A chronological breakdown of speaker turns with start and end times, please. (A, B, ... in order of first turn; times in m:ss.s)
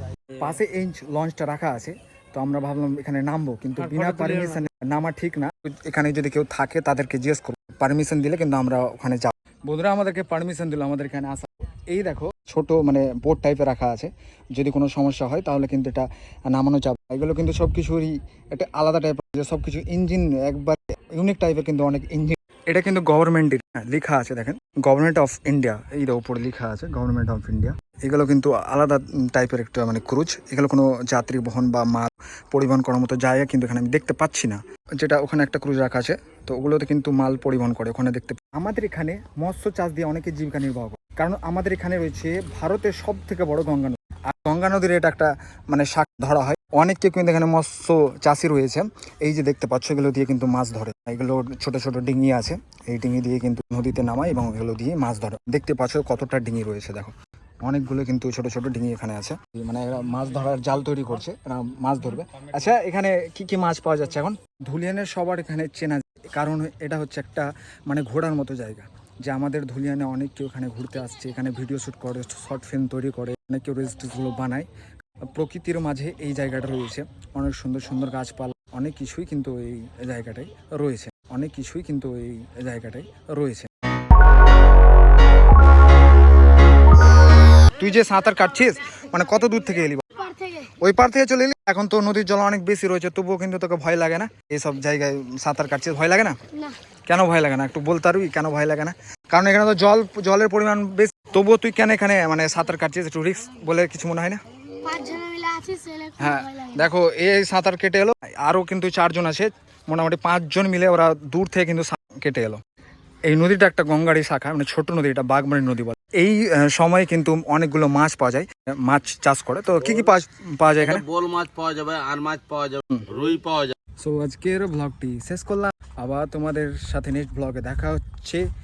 0:00.4-1:14.7 A
1:15.2-1:23.7 A
1:27.6-1:36.4 A
1:30.3-1:30.7 B
1:37.1-1:44.4 A
1:44.8-1:46.8 B
1:46.2-1:52.6 A
1:53.3-2:01.0 A
2:00.8-2:03.7 C
2:04.0-2:08.4 A